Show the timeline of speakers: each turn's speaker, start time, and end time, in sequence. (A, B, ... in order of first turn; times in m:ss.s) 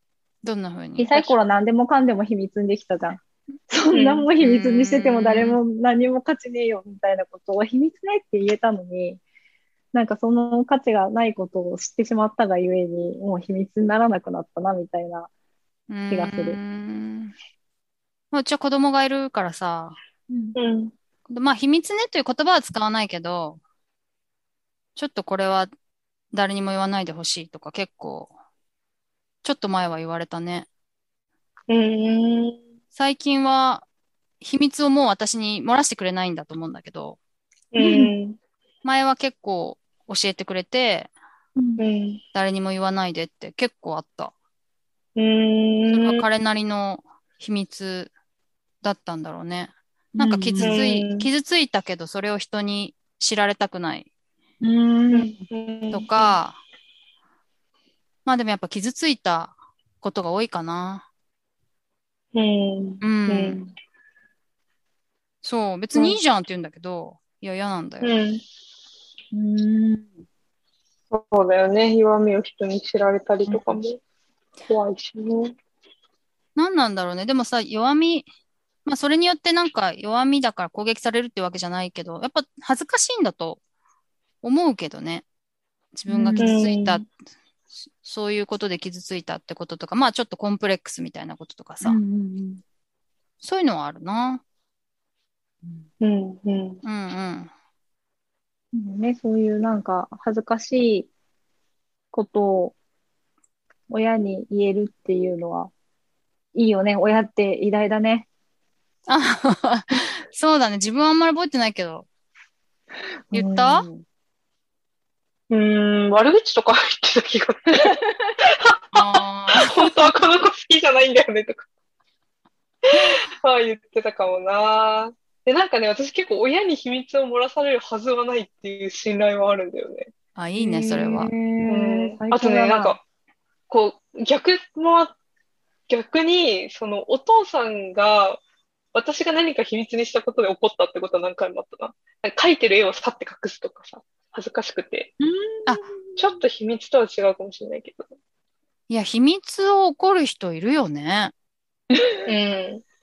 0:00.4-0:01.3 A
0:01.0-0:09.2 B
0:03.9-0:04.3 C
0:04.4-0:05.6 A
0:09.9-0:15.3 B
0:15.9-0:17.3 A
0:16.1-0:16.6 B
0:18.3-0:20.0 A
0:20.3-0:20.6 B
0:20.5-0:20.9 C
0:21.3-0:23.6 A
0:25.0-0:25.7 A
0:26.3-0:28.3 A
0:29.4-0:30.7 A
0:31.7-0:32.6 C
0:32.9-0:33.8 A
0:34.4-0:37.2 A
0:37.7-0:38.4 C
0:37.8-0:38.1 B
0:38.8-0:41.1 A
0:41.6-0:41.8 B
0:41.8-0:42.2 C
0:42.3-0:44.3 A
0:45.2-0:46.2 C
0:45.9-0:48.1 A
0:48.8-0:54.1 A
0:50.2-0:50.8 B
0:50.6-0:51.3 C
0:54.6-0:55.4 B
0:55.1-0:56.3 C
0:55.9-0:56.6 A
0:58.2-1:01.0 A
1:02.3-1:03.7 C
1:03.0-1:03.6 A
1:05.4-1:08.1 A
1:08.0-1:08.4 C
1:09.3-1:10.2 B
1:11.1-1:14.0 C
1:13.5-1:13.8 B
1:14.7-1:15.5 C
1:16.6-1:18.3 A
1:18.8-1:23.6 A
1:24.4-1:25.2 A
1:25.9-1:27.1 A
1:26.1-1:26.6 B
1:26.4-1:27.0 C
1:28.0-1:32.0 A
1:31.8-1:32.6 B
1:33.4-1:34.4 A
1:36.0-1:36.8 C
1:36.8-1:37.5 A
1:38.7-1:41.1 B
1:42.1-1:42.7 B
1:43.9-1:45.7 B
1:46.5-1:48.3 B
1:49.1-1:52.1 A
1:53.3-1:53.9 A
1:53.3-1:54.0 B
1:55.5-1:58.0 C
1:58.9-1:59.7 A
1:59.5-2:01.7 C
2:03.0-2:10.1 C
2:10.4-2:11.3 A
2:10.6-2:13.0 B
2:11.7-2:13.0 C
2:13.7-2:15.1 C
2:15.9-2:18.4 C
2:18.9-2:25.1 C
2:25.2-2:26.4 B
2:26.2-2:28.0 C
2:28.9-2:31.3 A
2:32.2-2:32.8 C